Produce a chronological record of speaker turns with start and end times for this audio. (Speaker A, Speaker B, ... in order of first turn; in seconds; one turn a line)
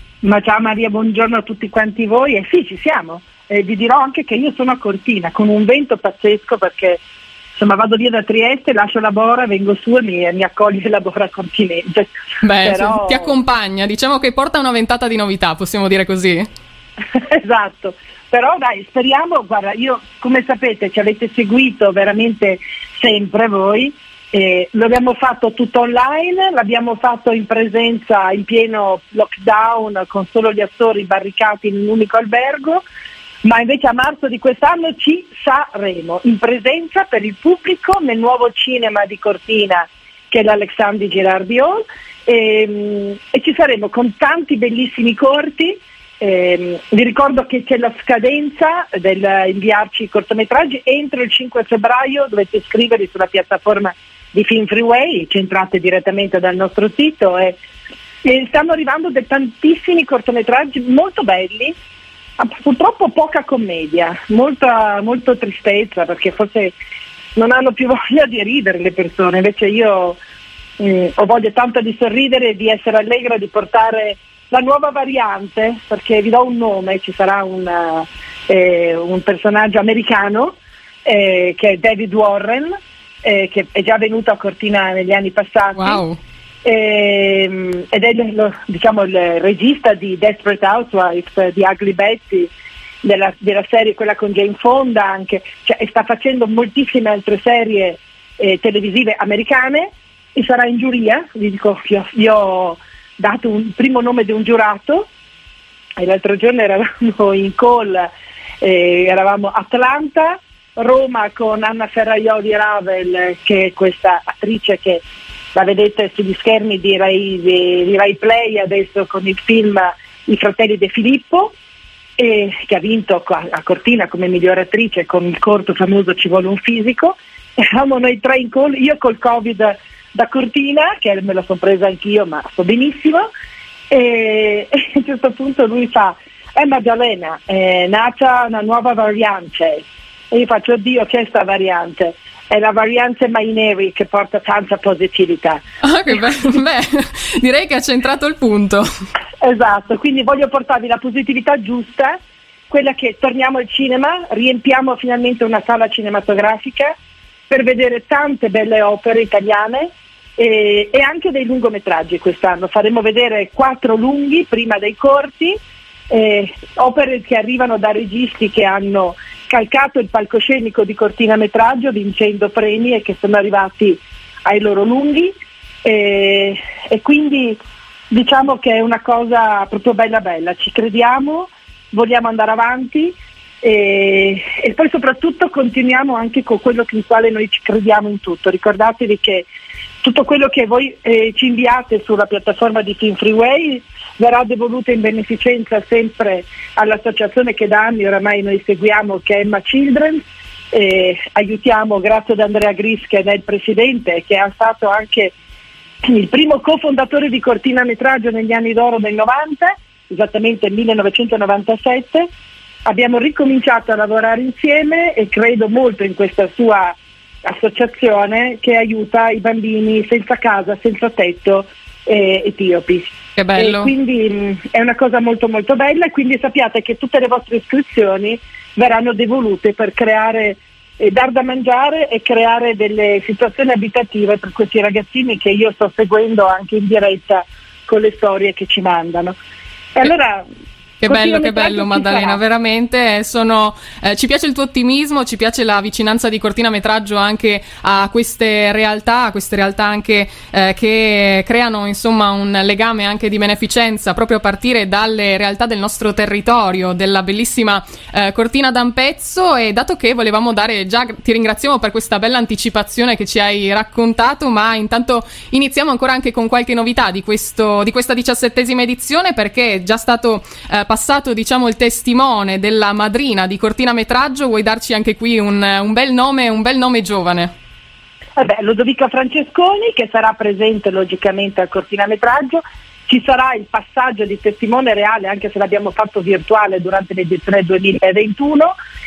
Speaker A: 0.2-7.0
Speaker A: 7.5-13.3
Speaker B: 12.4-16.4
Speaker A: 17.1-32.8
Speaker A: 33.4-57.6
Speaker A: 58.2-61.7
Speaker A: 62.4-66.8
Speaker A: 67.3-70.2
Speaker A: 70.8-86.0
Speaker B: 85.8-86.2
Speaker A: 86.6-92.5
Speaker A: 93.0-105.1
Speaker A: 106.0-115.0
Speaker A: 115.5-121.5
Speaker A: 122.2-133.3
Speaker A: 133.9-145.6
Speaker B: 145.8-148.8
Speaker A: 149.4-156.9
Speaker A: 157.5-165.6
Speaker A: 166.1-177.6
Speaker A: 178.1-189.5
Speaker A: 190.0-205.3
Speaker A: 206.0-212.3
Speaker A: 212.8-239.3
Speaker B: 223.4-223.9
Speaker A: 239.9-240.5
Speaker B: 241.0-277.5
Speaker A: 241.1-242.4
Speaker A: 278.4-288.8